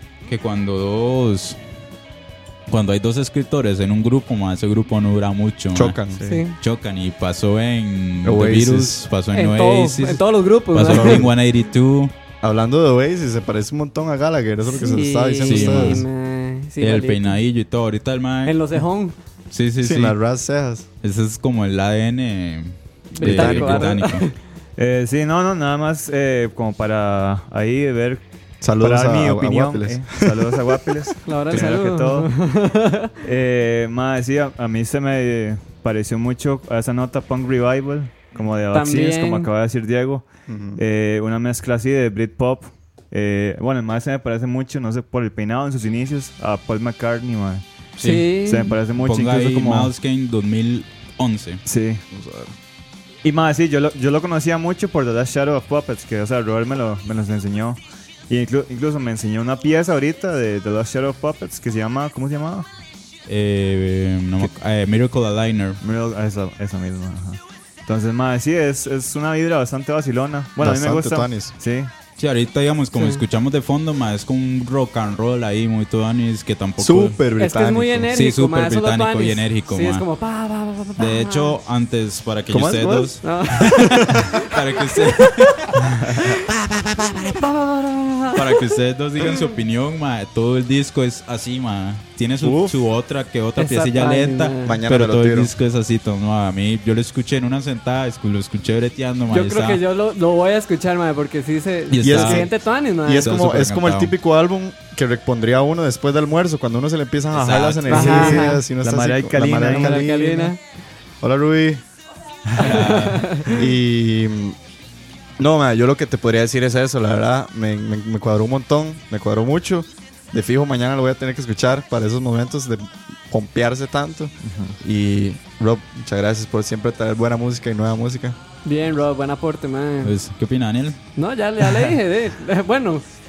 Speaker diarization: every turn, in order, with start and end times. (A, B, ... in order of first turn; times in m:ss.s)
0:00.3-0:01.6 A
0:02.7-0:06.0 A
0:05.7-0:06.2 B
0:06.1-0:06.4 C
0:06.2-0:06.6 D
0:06.6-0:12.1 A
0:08.2-0:09.0 B
0:09.3-0:11.2 D
0:10.8-0:11.3 B
0:12.4-0:16.0 B
0:14.6-0:17.4 D
0:15.4-0:16.1 A
0:16.8-0:18.8 A
0:18.4-0:19.1 D
0:19.5-0:20.2 A
0:19.8-0:20.8 B
0:21.0-0:24.3 A
0:23.2-0:24.3 D
0:23.2-0:24.0 B
0:24.8-0:28.2 C
0:28.6-0:31.0 B
0:28.8-0:32.3 C
0:31.2-0:33.2 D
0:33.2-0:47.6 C
0:38.7-0:39.5 D
0:40.5-0:40.8 B
0:48.0-0:48.3 A
0:48.0-0:48.7 D
0:48.4-0:49.9 C
0:48.9-0:51.6 A
0:51.6-0:52.0 C
0:52.1-0:52.5 B
0:53.2-1:02.7 C
1:03.3-1:05.8 A
1:05.8-1:11.9 C
1:10.6-1:11.5 B
1:12.2-1:17.2 A
1:12.9-1:13.2 D
1:16.8-1:18.1 B
1:17.4-1:21.6 D
1:18.1-1:20.0 A
1:21.0-1:27.4 A
1:22.5-1:24.3 B
1:23.2-1:25.7 D
1:27.3-1:28.6 D
1:28.3-1:39.8 A
1:32.4-1:32.8 B
1:33.6-1:34.8 D
1:34.6-1:35.5 B
1:39.3-1:43.4 D
1:41.9-1:42.5 A
1:42.0-1:42.5 B
1:43.0-1:50.5 B
1:43.1-1:44.1 A
1:47.3-1:48.4 A
1:47.9-1:50.0 C
1:47.9-1:48.6 D
1:49.7-1:50.6 D
1:51.2-1:51.8 B
1:52.6-1:53.5 A
1:52.6-1:53.5 D
1:53.5-1:54.6 B
1:55.4-2:08.4 B
2:04.4-2:04.8 C
2:08.6-2:10.1 D
2:10.0-2:11.0 A
2:11.2-2:13.0 D